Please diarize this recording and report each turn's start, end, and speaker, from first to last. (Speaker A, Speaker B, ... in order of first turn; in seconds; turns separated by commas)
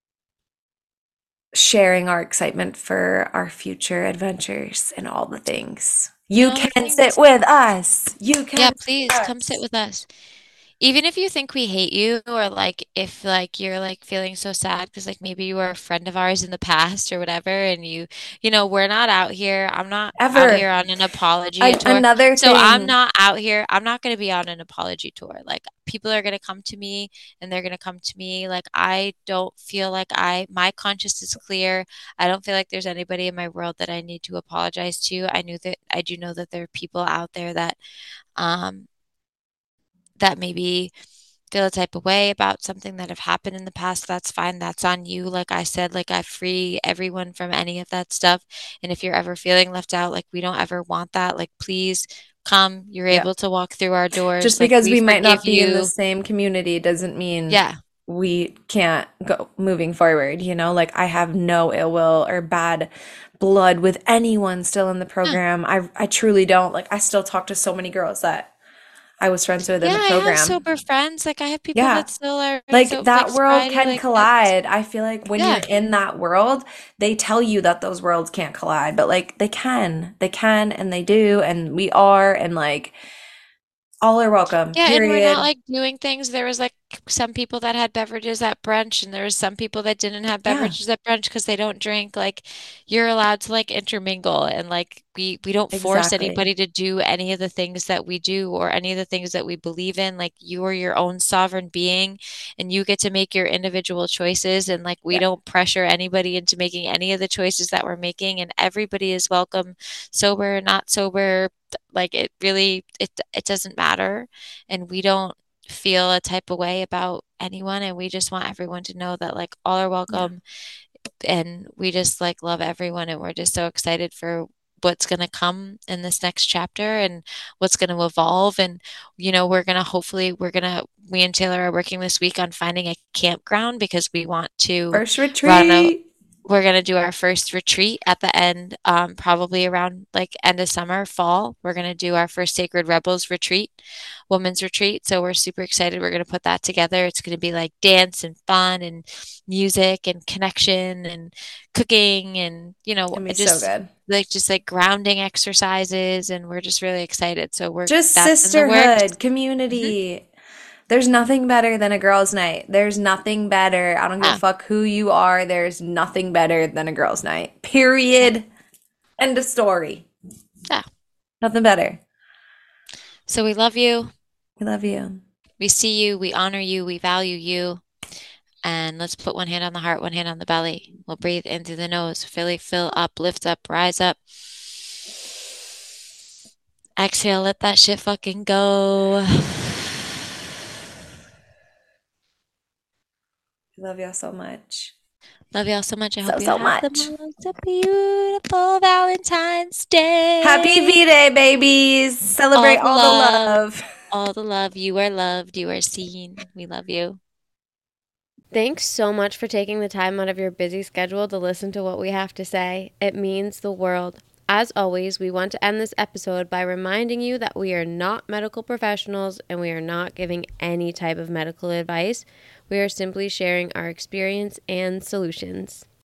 Speaker A: 1.5-9.5, Speaker B: 6.4-7.2, Speaker B: 8.6-10.1, Speaker B: 10.8-37.8, Speaker A: 20.2-20.6, Speaker A: 21.6-22.9, Speaker B: 38.4-38.9, Speaker B: 40.2-40.9, Speaker B: 41.5-55.9, Speaker A: 54.4-68.5, Speaker B: 57.5-57.8, Speaker A: 69.2-70.6, Speaker B: 69.8-74.5, Speaker A: 71.7-72.1, Speaker A: 72.7-82.9, Speaker B: 75.4-75.6, Speaker A: 84.0-85.5, Speaker B: 84.7-120.4, Speaker A: 90.4-90.8, Speaker A: 95.7-96.4, Speaker B: 121.2-135.9, Speaker A: 134.9-136.0, Speaker B: 136.4-143.7, Speaker B: 144.3-159.1, Speaker A: 153.1-153.9, Speaker A: 157.9-160.2, Speaker A: 160.9-168.4, Speaker A: 169.2-170.1, Speaker A: 171.4-172.0, Speaker B: 173.3-174.1, Speaker A: 174.6-175.2, Speaker B: 175.6-177.8, Speaker B: 178.6-184.2, Speaker B: 187.0-189.8, Speaker A: 193.8-194.9, Speaker B: 195.5-200.9, Speaker A: 196.2-197.1, Speaker A: 200.4-203.8, Speaker B: 202.5-207.2, Speaker C: 208.5-225.8